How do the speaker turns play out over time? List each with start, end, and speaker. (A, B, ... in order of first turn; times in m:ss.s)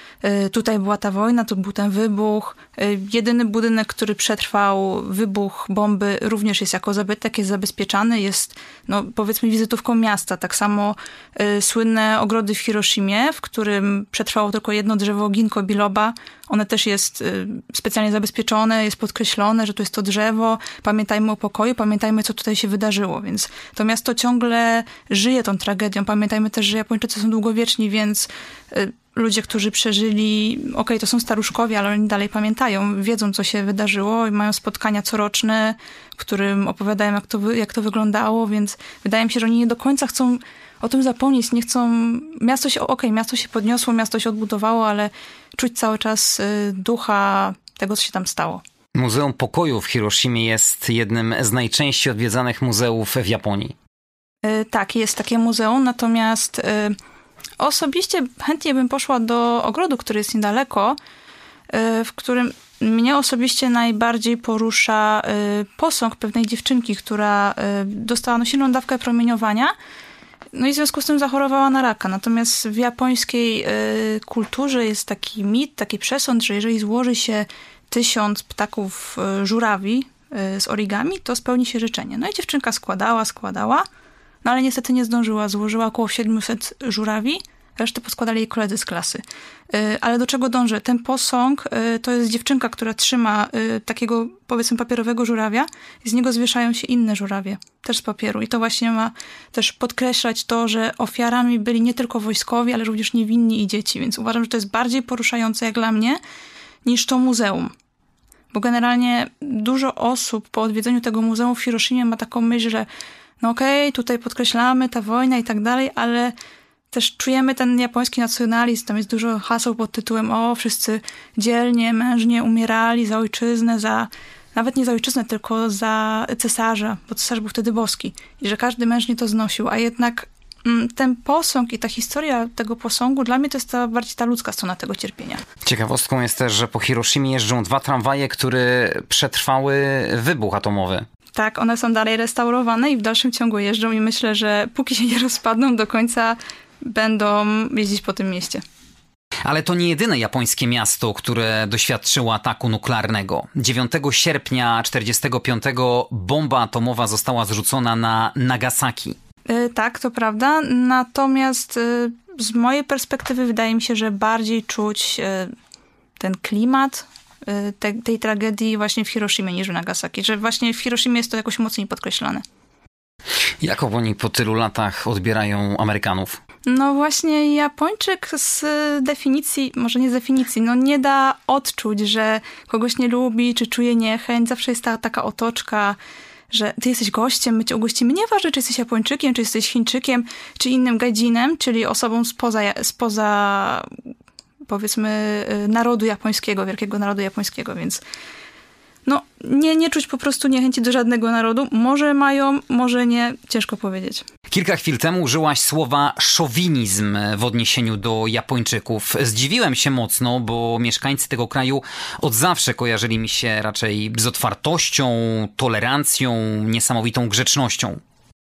0:00.2-0:48.6 A
0:49.0-0:53.8 B
0:54.4-0:57.0 A
0:57.6-1:01.0 A
1:01.7-1:09.7 A
1:10.5-1:23.8 A
1:24.4-1:46.2 A
1:46.8-1:47.7 A
1:48.5-1:52.9 A
1:53.4-1:56.3 A
1:56.9-2:15.4 A
2:15.6-2:21.0 B
2:21.4-2:28.6 A
2:29.4-2:39.2 B
2:39.5-2:45.5 A
2:46.2-2:52.4 A
2:53.6-2:56.4 B
2:56.7-3:06.0 A
3:06.5-3:13.9 A
3:14.6-3:18.0 A
3:19.0-3:24.2 A
3:24.5-3:38.0 B